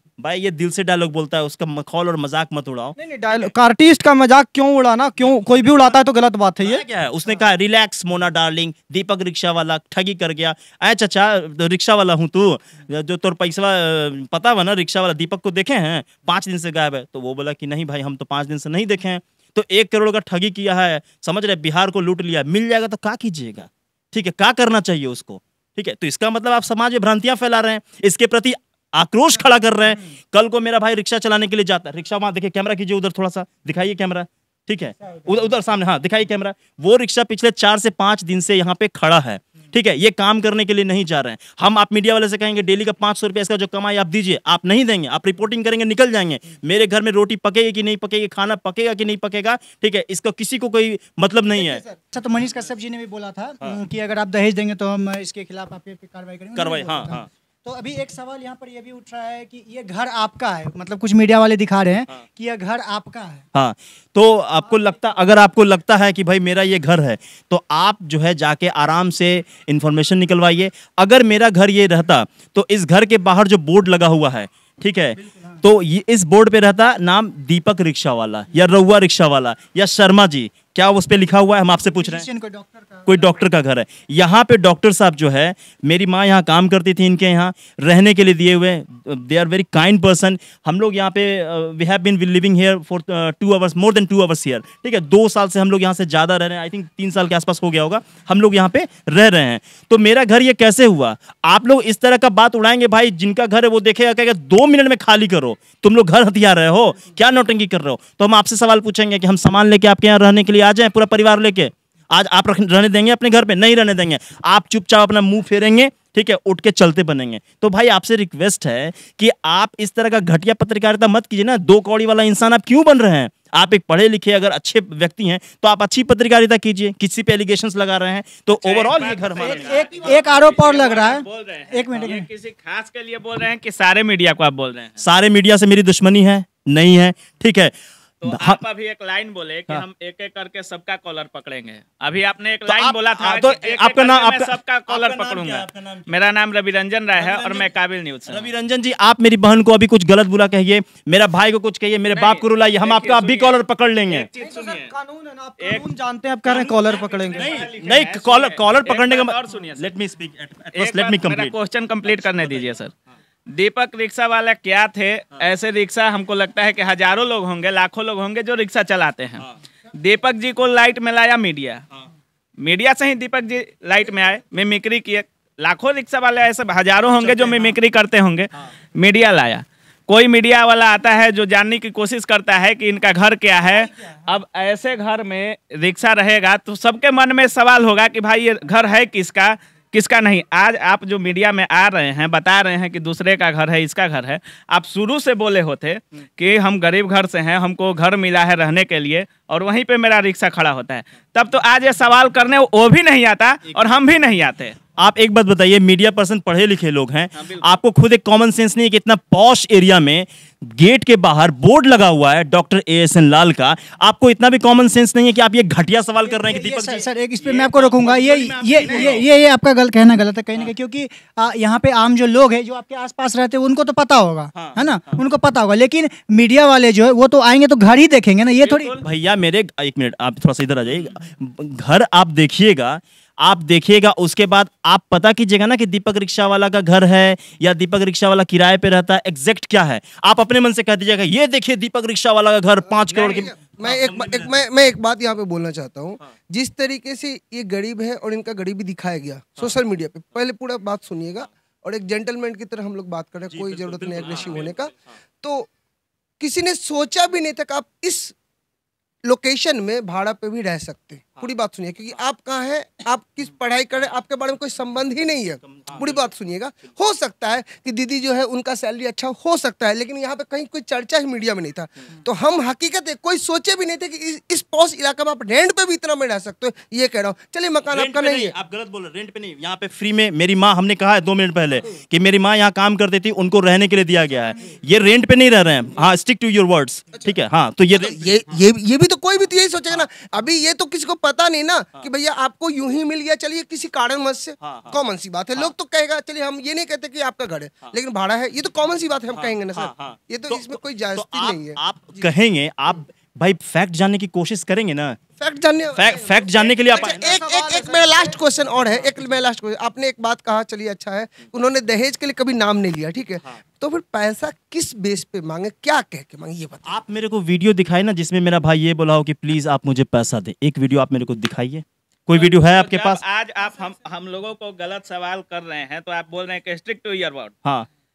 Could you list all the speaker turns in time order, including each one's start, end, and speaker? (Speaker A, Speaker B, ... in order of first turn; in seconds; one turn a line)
Speaker A: 0.2-3.5
Speaker B: 3.0-6.8
Speaker A: 5.2-5.7
Speaker A: 6.6-51.8
Speaker C: 51.6-63.4
Speaker A: 56.5-57.3
Speaker A: 63.5-82.3
Speaker C: 81.9-83.2
Speaker A: 83.1-130.1
Speaker D: 128.5-135.0
Speaker C: 129.4-132.3
Speaker A: 135.0-137.7
Speaker D: 138.2-148.5
Speaker A: 138.2-138.6
Speaker A: 142.7-146.1
Speaker A: 147.2-147.7
Speaker A: 148.3-154.3
Speaker D: 152.1-154.9
Speaker B: 154.4-157.5
Speaker D: 155.6-155.9
Speaker D: 156.5-159.9
Speaker A: 157.4-161.5
Speaker D: 160.7-162.9
Speaker D: 163.5-171.9
Speaker D: 172.6-204.8
Speaker A: 177.2-177.8
Speaker A: 205.0-219.2
Speaker C: 216.2-229.0
Speaker A: 224.5-225.2
Speaker D: 228.6-228.9
Speaker A: 228.8-244.6
Speaker E: 242.9-255.7
Speaker A: 253.5-254.9
Speaker E: 256.4-258.4
Speaker E: 259.2-278.5
Speaker A: 265.7-266.2
Speaker A: 277.9-288.5
Speaker E: 287.9-301.8
Speaker A: 294.6-295.0
Speaker A: 299.3-305.2
Speaker E: 305.4-316.9
Speaker A: 305.9-307.4
Speaker B: 306.9-308.4
Speaker A: 316.9-323.2
Speaker D: 322.4-327.6